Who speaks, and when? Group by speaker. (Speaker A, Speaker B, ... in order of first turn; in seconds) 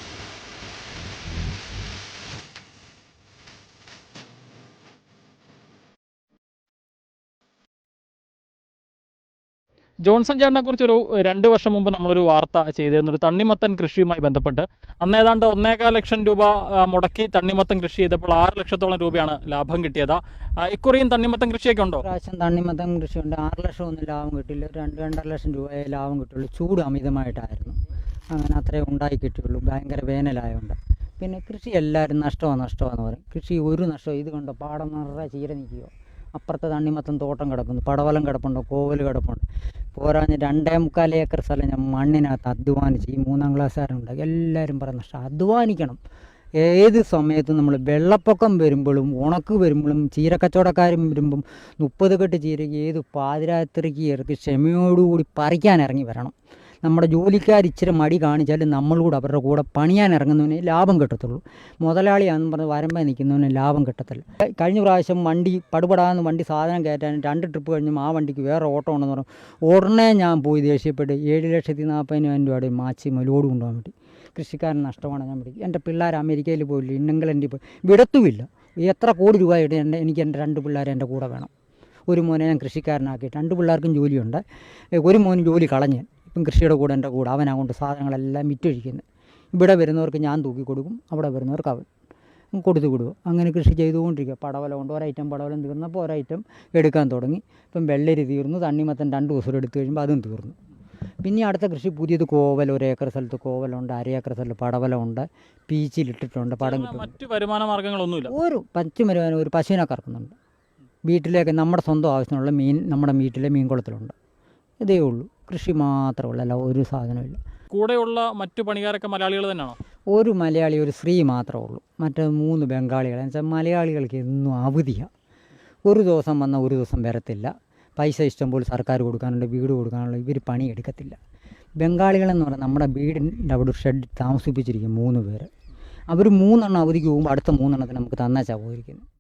Speaker A: 10.1-22.0, 106.6-108.3, 117.7-119.8
Speaker B: 22.0-27.8, 28.3-39.5, 40.0-46.0, 46.6-81.5, 82.1-84.4, 85.0-91.9, 92.5-100.5, 101.2-107.2, 108.3-110.3, 111.1-114.1, 114.8-117.4, 120.1-125.1, 125.9-131.2, 131.8-135.5, 136.1-139.0